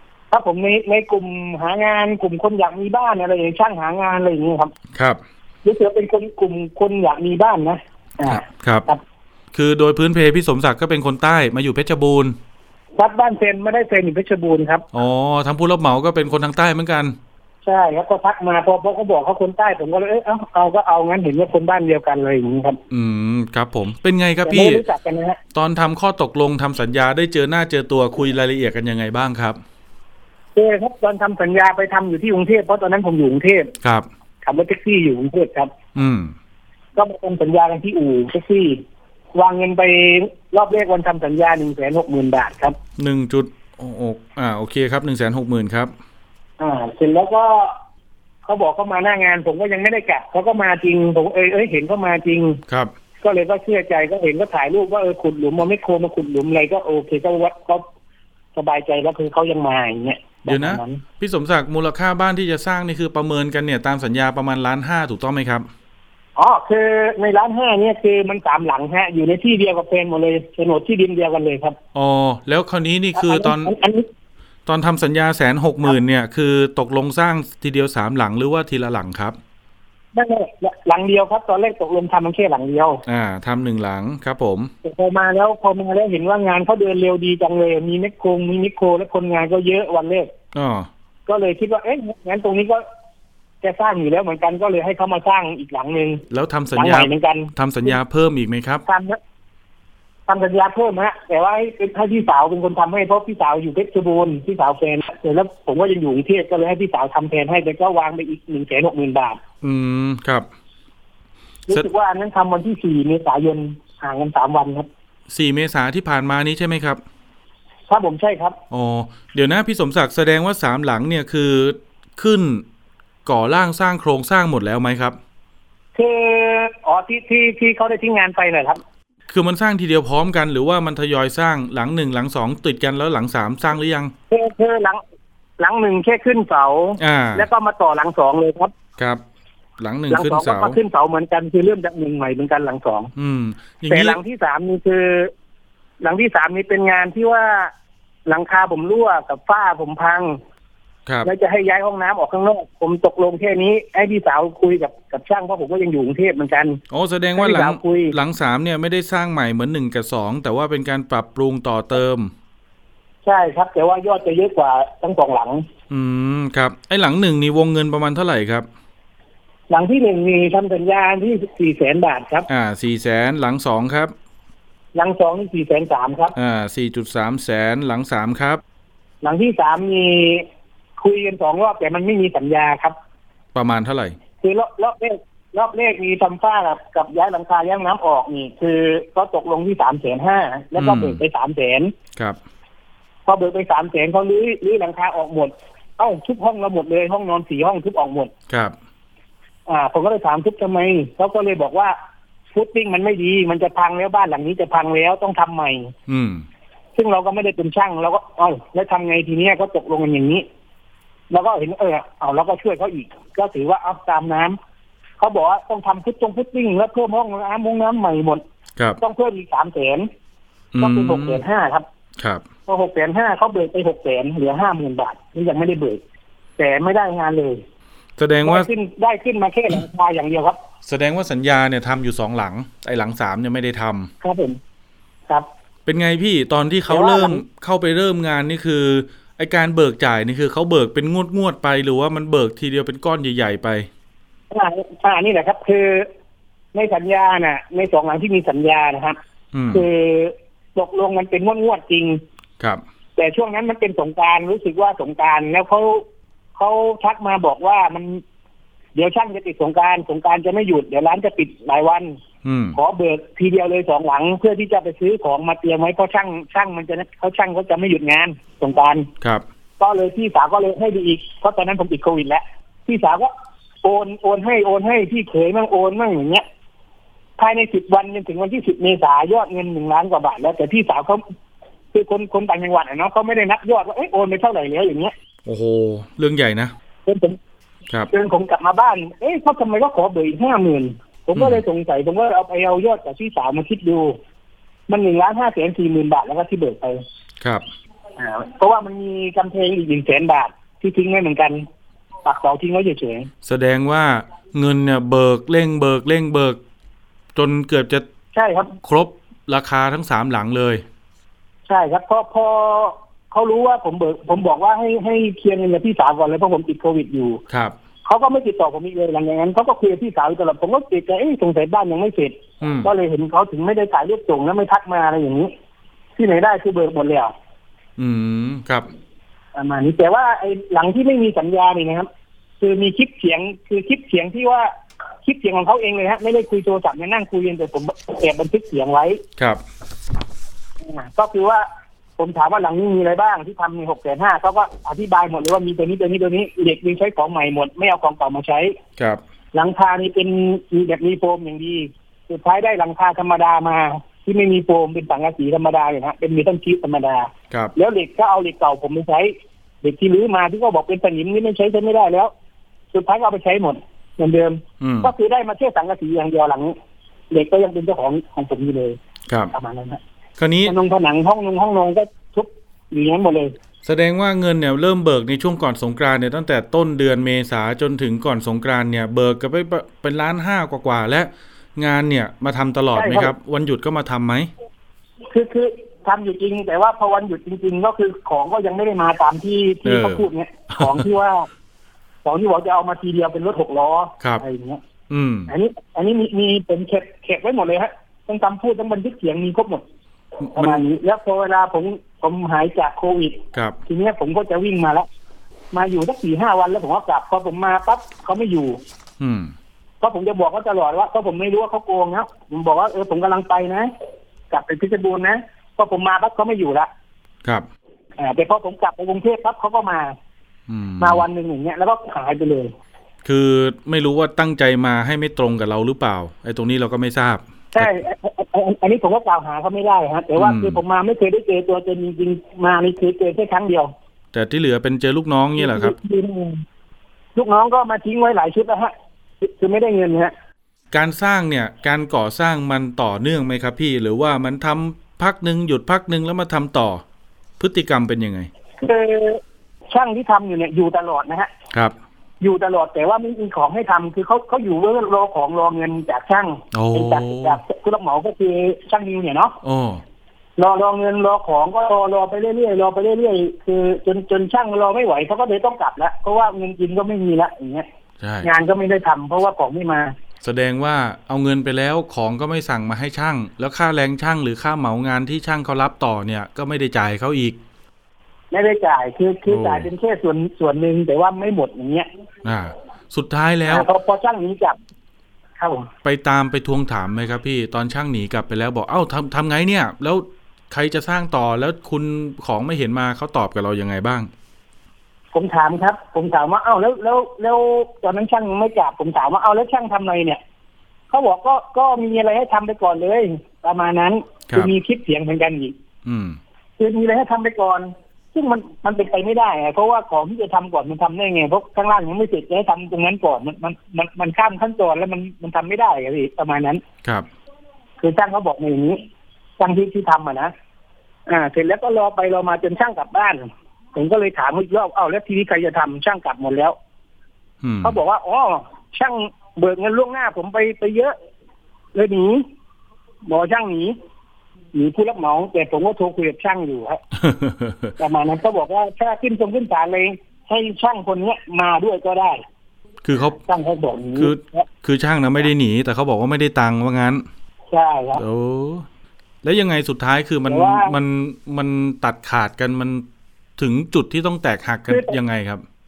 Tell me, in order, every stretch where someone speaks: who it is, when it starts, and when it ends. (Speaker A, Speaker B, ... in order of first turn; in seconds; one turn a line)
Speaker A: 0.3-4.7
Speaker B: 5.0-5.2
Speaker A: 5.6-9.0
Speaker B: 8.2-8.9
Speaker B: 9.5-12.4
Speaker A: 13.0-14.9
Speaker B: 14.9-17.2
Speaker A: 17.6-22.8
Speaker B: 22.9-24.8
Speaker A: 24.4-25.4
Speaker B: 25.5-29.6
Speaker A: 30.6-33.8
Speaker B: 33.8-34.1
Speaker A: 34.5-35.7
Speaker B: 36.0-36.3
Speaker A: 37.0-38.8
Speaker A: 39.4-42.8
Speaker B: 43.0-45.9
Speaker A: 46.6-47.8
Speaker A: 48.5-52.6
Speaker A: 53.2-57.9
Speaker A: 58.5-61.0
Speaker B: 60.5-65.7
Speaker A: 66.4-71.8
Speaker B: 71.9-73.7
Speaker A: 73.2-74.1
Speaker B: 74.7-79.4
Speaker A: 80.1-83.0
Speaker B: 83.1-84.7
Speaker A: 84.8-90.3
Speaker B: 90.5-90.9
Speaker A: 91.3-92.8
Speaker A: 93.6-96.2
Speaker B: 96.3-98.8
Speaker A: 96.8-97.5
Speaker A: 98.9-99.2
Speaker A: 100.3-109.4
Speaker B: 109.6-110.5
Speaker A: 111.7-114.9
Speaker B: 115.3-117.0
Speaker A: 117.9-118.6
Speaker B: 118.7-122.6
Speaker B: 123.2-125.2
Speaker A: 126.0-128.8
Speaker B: 129.3-134.1
Speaker A: 134.3-135.0
Speaker A: 135.6-138.7
Speaker B: 137.0-137.5
Speaker B: 139.8-140.8
Speaker A: 140.1-143.1
Speaker B: 143.2-144.2
Speaker A: 143.9-145.3
Speaker A: 146.0-147.7
Speaker A: 148.3-150.4
Speaker A: 151.2-156.8
Speaker B: 156.9-162.3
Speaker A: 157.4-158.2
Speaker A: 163.2-165.6
Speaker B: 165.9-168.7
Speaker A: 169.7-172.5
Speaker B: 172.5-174.1
Speaker A: 174.9-176.3
Speaker B: 176.4-178.6
Speaker A: 179.2-183.0
Speaker B: 183.5-184.2
Speaker A: 184.4-191.9
Speaker B: 190.8-191.2
Speaker A: 193.2-198.3
Speaker B: 198.5-198.8
Speaker A: 199.7-201.9
Speaker A: 202.5-205.9
Speaker B: 206.1-206.5
Speaker A: 207.0-210.5
Speaker A: 211.3-214.6
Speaker A: 215.2-218.4
Speaker A: 219.0-220.1
Speaker B: 220.7-221.4
Speaker A: 220.8-221.9
Speaker B: 222.2-222.4
Speaker A: 222.7-226.0
Speaker A: 226.6-227.6
Speaker B: 228.2-228.7
Speaker A: 228.4-230.6
Speaker B: 230.8-234.1
Speaker A: 234.2-234.6
Speaker B: 235.9-243.9
Speaker A: 236.9-237.4
Speaker A: 244.5-246.1
Speaker A: 246.7-249.2
Speaker B: 249.5-249.9
Speaker A: 249.7-252.2
Speaker A: 253.2-258.2
Speaker A: 258.9-262.2
Speaker B: 262.4-262.8
Speaker A: 262.8-269.1
Speaker A: 269.8-273.3
Speaker A: 273.8-276.4
Speaker A: 277.4-281.2
Speaker A: 281.9-285.1
Speaker B: 285.5-286.7
Speaker A: 287.1-287.4
Speaker A: 288.1-294.2
Speaker B: 291.4-291.6
Speaker A: 294.9-297.0
Speaker B: 297.4-297.7
Speaker A: 298.2-301.6
Speaker A: 302.2-303.3
Speaker B: 303.4-306.6
Speaker B: 307.4-308.1
Speaker A: 308.3-308.8
Speaker B: 308.8-310.9
Speaker A: 311.7-317.4
Speaker B: 317.5-317.8
Speaker A: 318.1-325.5
Speaker B: 322.6-322.9
Speaker A: 326.2-327.3
Speaker B: 328.0-328.9
Speaker A: 329.6-332.1
Speaker A: 332.6-334.7
Speaker A: 335.2-339.2
Speaker B: 339.4-339.6
Speaker A: 340.9-341.7
Speaker A: 342.2-348.8
Speaker B: 349.0-349.2
Speaker A: 349.5-362.3
Speaker A: 362.9-366.8
Speaker B: 364.8-365.1
Speaker A: 367.3-369.0
Speaker B: 369.3-369.5
Speaker A: 369.5-370.0
Speaker B: 370.4-370.8
Speaker A: 370.6-373.6
Speaker B: 373.8-384.5
Speaker A: 382.9-383.3
Speaker A: 385.3-391.5
Speaker B: 389.8-391.0
Speaker A: 392.2-394.8
Speaker B: 395.1-395.5
Speaker A: 395.5-399.8
Speaker B: 400.5-400.8
Speaker A: 400.6-405.1
Speaker A: 405.7-408.8
Speaker B: 409.2-409.5
Speaker A: 410.0-413.9
Speaker A: 414.5-416.9
Speaker A: 418.2-420.2
Speaker B: 420.7-421.2
Speaker A: 421.0-422.7
Speaker B: 423.2-427.9
Speaker A: 427.7-433.9
Speaker B: 430.4-430.8
Speaker B: 434.3-436.0
Speaker A: 435.6-436.6
Speaker A: 437.4-440.3
Speaker B: 440.9-447.0
Speaker B: 447.6-448.5
Speaker A: 448.8-451.5
Speaker A: 452.4-459.6
Speaker B: 456.7-457.6
Speaker B: 459.6-460.0
Speaker A: 460.6-467.9
Speaker B: 468.2-468.5
Speaker A: 468.4-470.1
Speaker B: 470.4-477.6
Speaker A: 478.5-482.1
Speaker B: 479.5-479.9
Speaker B: 482.4-483.9
Speaker A: 483.7-484.8
Speaker A: 485.6-485.9
Speaker B: 486.0-494.3
Speaker A: 495.3-500.4
Speaker A: 501.1-505.8
Speaker B: 506.1-506.4
Speaker A: 506.8-516.8
Speaker A: 518.0-519.0
Speaker A: 519.6-520.5
Speaker A: 521.3-526.8
Speaker B: 527.6-528.0
Speaker A: 527.8-531.1
Speaker A: 531.9-532.5
Speaker A: 533.3-534.0
Speaker A: 534.7-537.0
Speaker B: 537.2-537.9
Speaker A: 538.0-542.4
Speaker B: 543.0-543.4
Speaker A: 543.2-544.6
Speaker B: 544.1-547.2
Speaker A: 547.7-548.2
Speaker B: 548.1-548.9
Speaker B: 549.4-553.0
Speaker A: 550.5-551.0
Speaker B: 553.6-555.6
Speaker A: 554.9-555.2